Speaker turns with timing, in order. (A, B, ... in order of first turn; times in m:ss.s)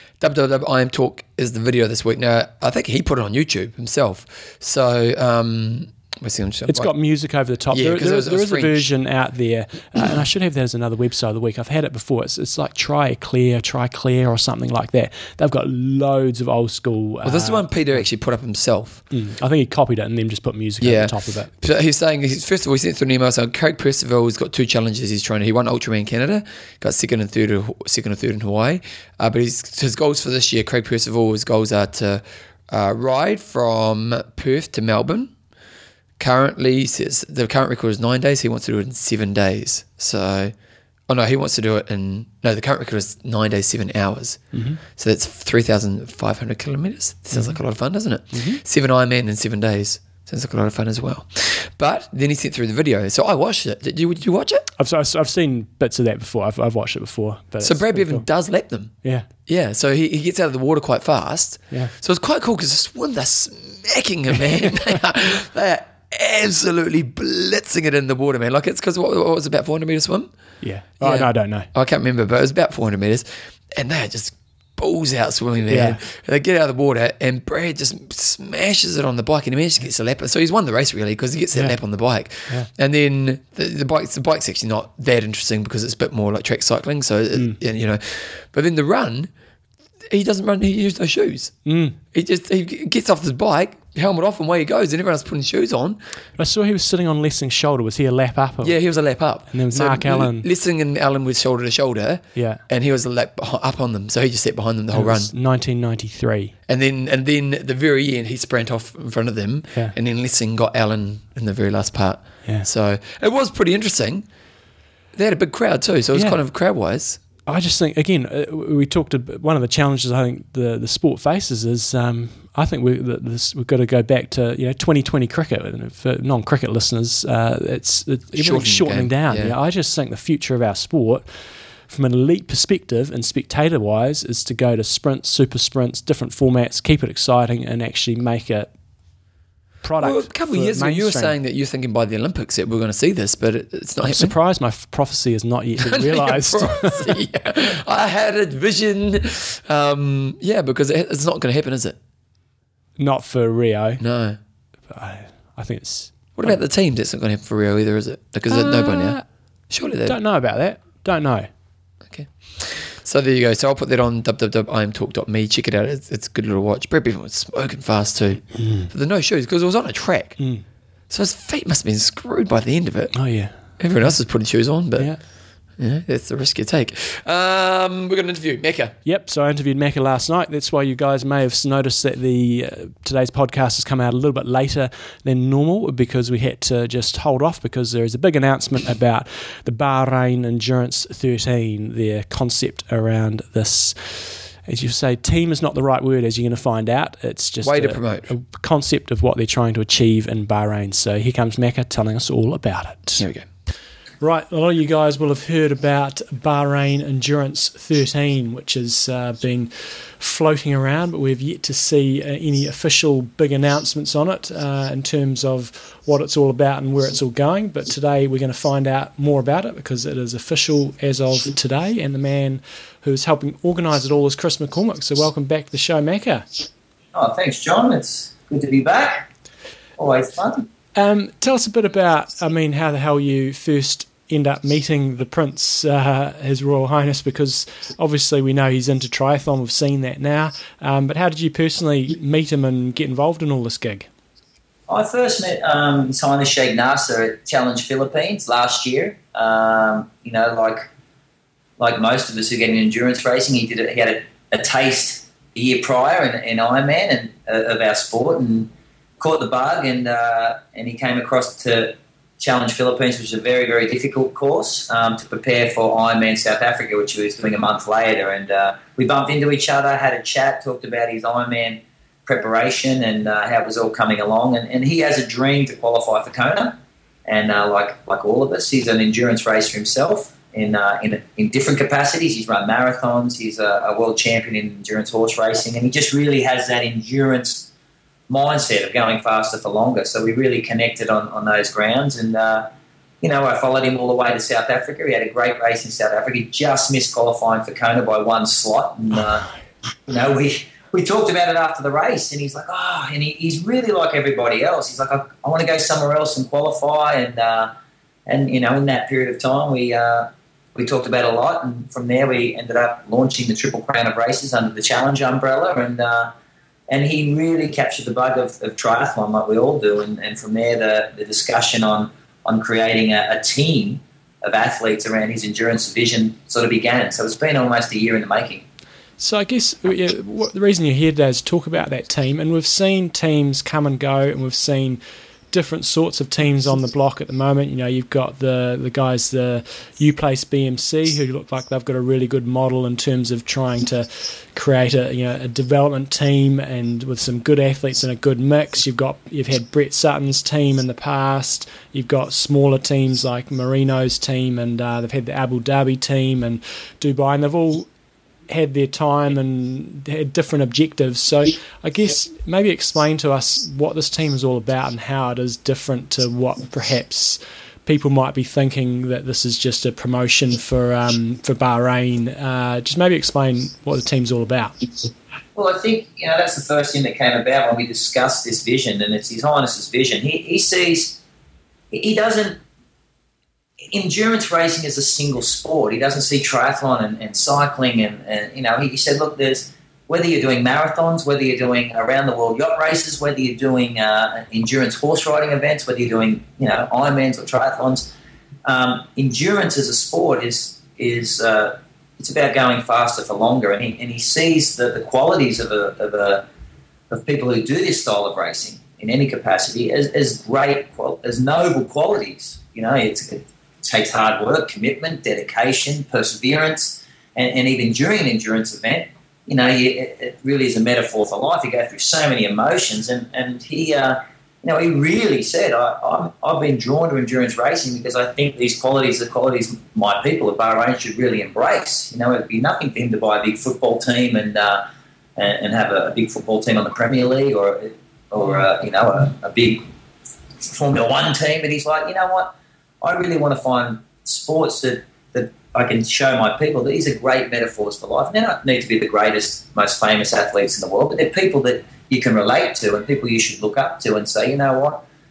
0:00.2-0:06.9 A
0:06.7-0:17.7 B
0:07.7-0:08.9 A
0:17.2-0:19.0 A
0:19.1-0:21.5 B
0:20.8-0:35.3 A
0:36.2-0:40.5 A
0:41.1-0:44.4 A
0:44.5-0:44.8 B
0:45.0-0:54.7 A
0:47.3-0:47.6 B
0:48.3-0:48.6 B
0:54.8-0:58.3 B
0:57.6-0:58.9 A
0:59.5-1:10.3 A
1:04.4-1:05.0 B
1:10.6-1:11.7 B
1:11.0-1:29.3 A
1:15.7-1:16.0 B
1:30.1-1:31.6 A
1:31.6-1:32.0 B
1:32.1-1:36.0 A
1:36.4-1:38.8 B
1:38.6-1:45.3 A
1:39.5-1:40.5 B
1:42.4-1:42.6 B
1:44.9-1:46.5 B
1:46.7-1:54.2 A
1:55.2-1:57.2 A
1:56.1-1:56.4 B
1:57.5-2:11.2 B
2:08.3-2:09.6 A
2:11.9-2:18.7 B
2:19.8-2:21.3 B
2:20.0-2:24.3 A
2:24.0-2:27.2 B
2:25.8-2:32.0 A
2:33.0-2:34.0 B
2:34.0-2:34.4 A
2:34.9-2:36.6 B
2:36.4-2:39.2 A
2:38.5-2:39.2 B
2:39.7-2:40.2 A
2:40.1-2:41.5 B
2:42.1-2:50.4 A
2:48.5-2:48.9 B
2:50.4-2:50.6 B
2:51.1-2:53.2 A
2:53.1-2:53.6 B
2:53.8-2:55.2 A
2:55.8-2:58.9 A
2:59.0-3:23.2 B
3:17.6-3:18.3 A
3:23.2-3:23.5 A
3:24.2-3:46.5 B
3:47.1-3:49.3 C
3:50.0-3:50.7 C
3:51.0-4:04.1 B
4:04.9-4:10.9 C
4:11.8-4:47.7 C
4:48.3-4:52.7 C
4:53.2-4:59.5 C
5:00.1-5:07.7 C
5:08.3-5:16.3 C
5:16.9-5:28.6 C
5:29.2-5:35.0 B
5:35.5-5:57.9 B
5:58.5-6:14.9 B
6:15.6-6:21.2 C
6:21.9-6:22.6 C
6:23.9-6:38.1 C
6:38.6-6:46.5 C
6:47.1-7:14.9 C
7:15.4-7:19.9 C
7:20.6-7:35.0 C